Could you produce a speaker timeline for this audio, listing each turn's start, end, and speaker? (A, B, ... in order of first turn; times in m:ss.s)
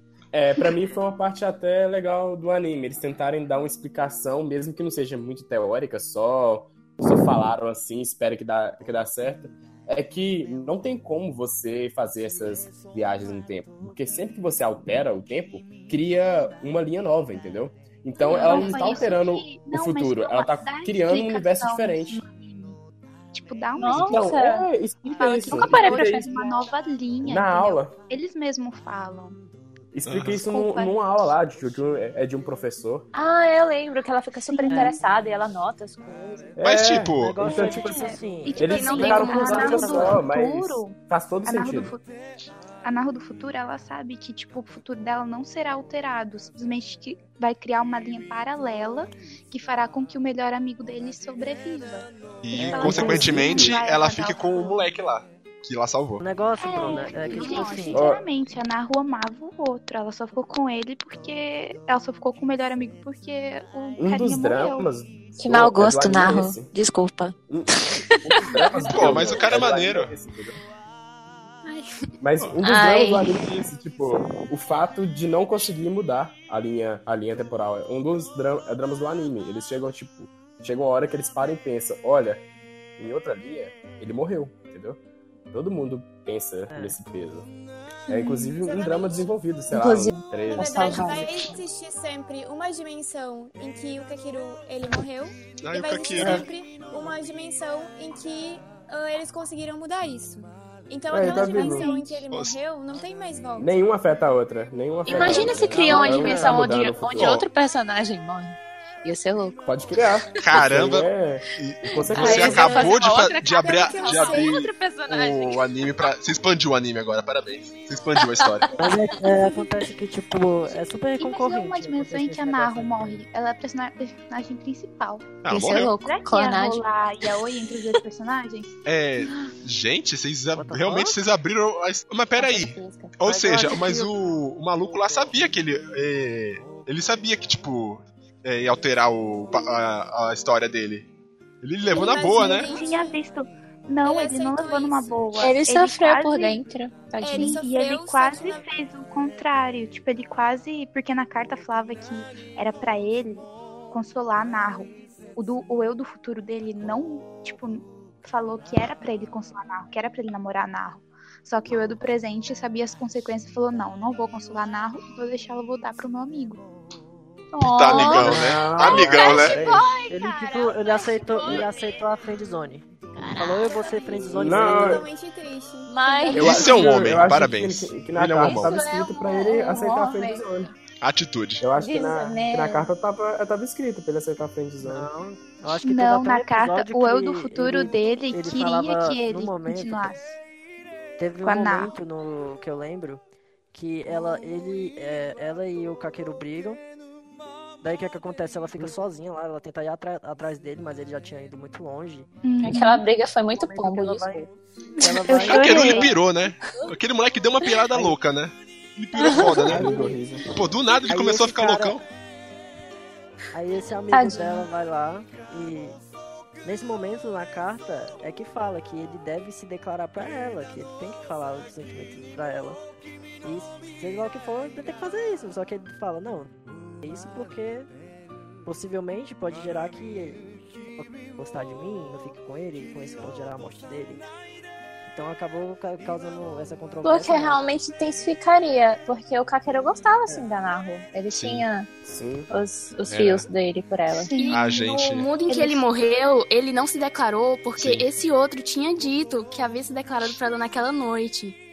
0:00.3-0:22.2 A
0:18.2-0:22.8 B
0:18.2-0:19.1 C
0:23.3-0:24.4 B
0:23.8-0:24.7 C
0:24.0-0:26.3 A
0:25.1-0:29.4 B
0:25.4-0:26.7 C
0:27.2-0:28.0 A
0:29.9-0:33.1 A
0:30.1-0:30.4 D
0:30.4-0:31.0 B
0:33.1-0:36.6 C
0:34.3-0:35.0 B
0:34.7-0:35.0 E
0:36.6-0:42.0 A
0:36.6-0:37.4 D
0:37.2-0:40.1 E
0:38.4-0:42.1 B
0:38.6-0:39.9 F
0:38.8-0:40.1 C
0:42.8-0:52.1 B
0:52.4-0:56.2 D
0:52.6-0:53.3 E
0:52.6-0:54.9 B
0:52.7-0:53.8 A
0:56.2-0:58.0 E
0:56.6-1:04.9 B
0:56.7-0:57.8 C
0:57.4-0:58.0 F
0:57.9-0:58.2 A
1:04.0-1:06.7 A
1:05.4-1:09.3 C
1:07.5-1:10.6 A
1:08.8-1:10.1 D
1:12.2-1:22.4 A
1:12.6-1:13.5 C
1:23.0-1:25.0 A
1:25.5-1:27.5 A
1:26.7-1:27.0 E
1:28.1-1:31.5 A
1:28.1-1:28.5 B
1:28.6-1:29.4 G
1:29.7-1:31.6 C
1:30.5-1:43.8 G
1:35.6-1:36.5 D
1:36.2-1:36.5 C
1:41.1-1:41.9 A
1:41.3-1:42.2 B
1:42.3-1:42.6 D
1:43.6-1:47.4 A
1:45.1-1:49.7 C
1:45.1-1:46.7 E
1:47.2-1:47.4 D
1:49.6-1:52.8 A
1:50.4-1:58.7 D
1:51.9-1:56.1 C
1:52.2-1:52.9 E
1:53.7-1:54.6 G
1:58.2-1:59.6 C
1:58.8-2:03.2 E
2:01.2-2:08.8 B
2:05.4-2:05.9 D
2:05.5-2:08.0 C
2:08.9-2:21.1 D
2:10.5-2:11.2 E
2:12.4-2:13.2 C
2:13.2-2:14.4 E
2:21.6-2:22.7 D
2:21.9-2:23.2 G
2:21.9-2:26.6 B
2:24.0-2:25.2 G
2:25.4-2:27.6 C
2:27.2-2:28.6 G
2:27.3-2:46.6 B
2:47.6-2:50.2 C
2:47.6-2:49.6 D
2:47.9-2:49.8 A
2:49.9-2:52.1 G
2:50.1-2:55.0 E
2:51.0-2:51.6 C
2:53.2-2:53.9 C
2:54.3-2:55.1 A
2:54.3-2:56.4 G
2:55.9-2:56.9 C
2:56.3-2:56.6 B
2:56.3-3:00.7 A
2:56.4-2:58.8 D
2:58.4-3:00.7 C
3:01.0-3:01.6 D
3:01.6-3:05.1 A
3:01.8-3:02.9 C
3:04.8-3:10.2 E
3:05.8-3:10.4 B
3:11.2-3:13.2 E
3:11.4-3:12.0 B
3:13.7-3:16.8 E
3:17.8-3:22.3 E
3:22.4-3:23.0 B
3:22.6-3:24.5 C
3:23.6-3:24.5 E
3:25.0-3:26.2 E
3:25.0-3:26.0 B
3:25.3-3:26.2 C
3:25.4-3:29.9 D
3:27.9-3:28.2 E
3:29.2-3:29.7 C
3:29.6-3:30.7 A
3:29.7-3:30.2 E
3:30.5-3:32.0 D
3:31.1-3:32.0 E
3:33.5-3:36.0 E
3:34.1-3:34.7 C
3:36.6-3:42.8 E
3:43.4-3:47.9 E
3:48.6-3:54.3 E
3:55.1-3:57.6 E
3:57.0-4:01.9 C
4:01.3-4:01.7 D
4:02.0-4:02.5 A
4:02.5-4:04.4 C
4:03.1-4:03.5 D
4:04.1-4:04.6 B
4:04.4-4:11.6 F
4:04.5-4:05.3 D
4:05.5-4:05.8 B
4:07.8-4:08.1 D